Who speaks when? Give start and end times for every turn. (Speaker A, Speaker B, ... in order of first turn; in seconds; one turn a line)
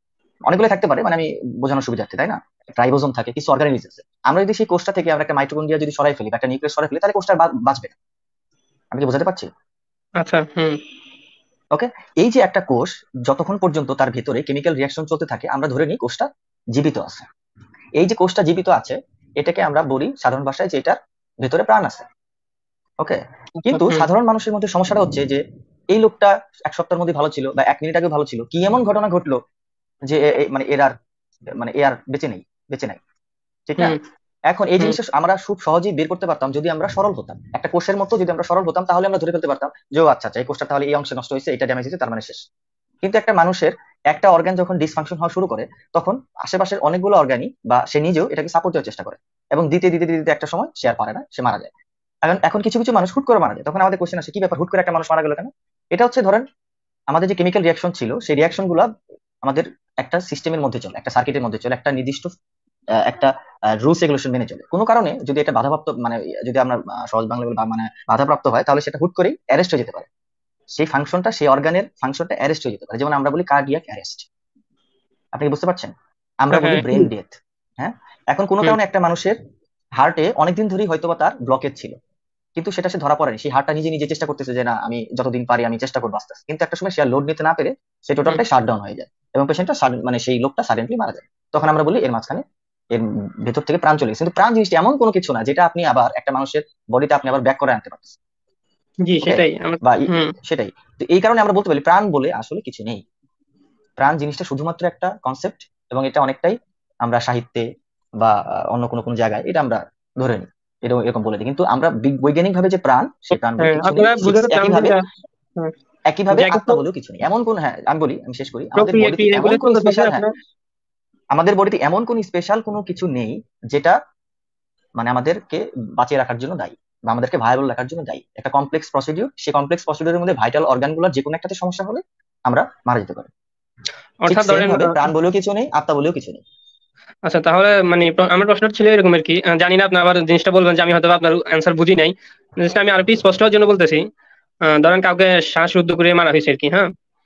Speaker A: 0.5-7.9
Speaker A: 8.9-9.5
Speaker B: 10.2-10.8
Speaker A: 11.7-17.2
Speaker A: 18.0-22.1
Speaker A: 23.0-25.4
Speaker B: 23.6-24.1
Speaker A: 25.9-29.4
Speaker A: 30.1-30.9
Speaker A: 31.6-33.0
Speaker A: 33.7-34.0
Speaker A: 34.5-42.4
Speaker A: 43.0-51.7
Speaker A: 52.2-56.4
Speaker A: 57.1-58.9
Speaker A: 59.4-62.3
Speaker A: 63.0-70.1
Speaker A: 70.8-74.3
Speaker A: 75.3-79.3
Speaker B: 76.5-77.1
Speaker A: 80.0-81.9
Speaker A: 82.5-98.1
Speaker B: 99.0-100.3
Speaker A: 99.2-103.0
Speaker A: 104.0-107.7
Speaker A: 108.2-115.0
Speaker B: 113.6-115.0
Speaker A: 116.1-120.2
Speaker B: 116.3-116.8
Speaker B: 118.8-120.3
Speaker A: 121.3-123.9
Speaker A: 125.0-133.3
Speaker B: 134.2-135.1
Speaker A: 134.3-136.4
Speaker B: 137.2-144.0
Speaker B: 144.7-146.9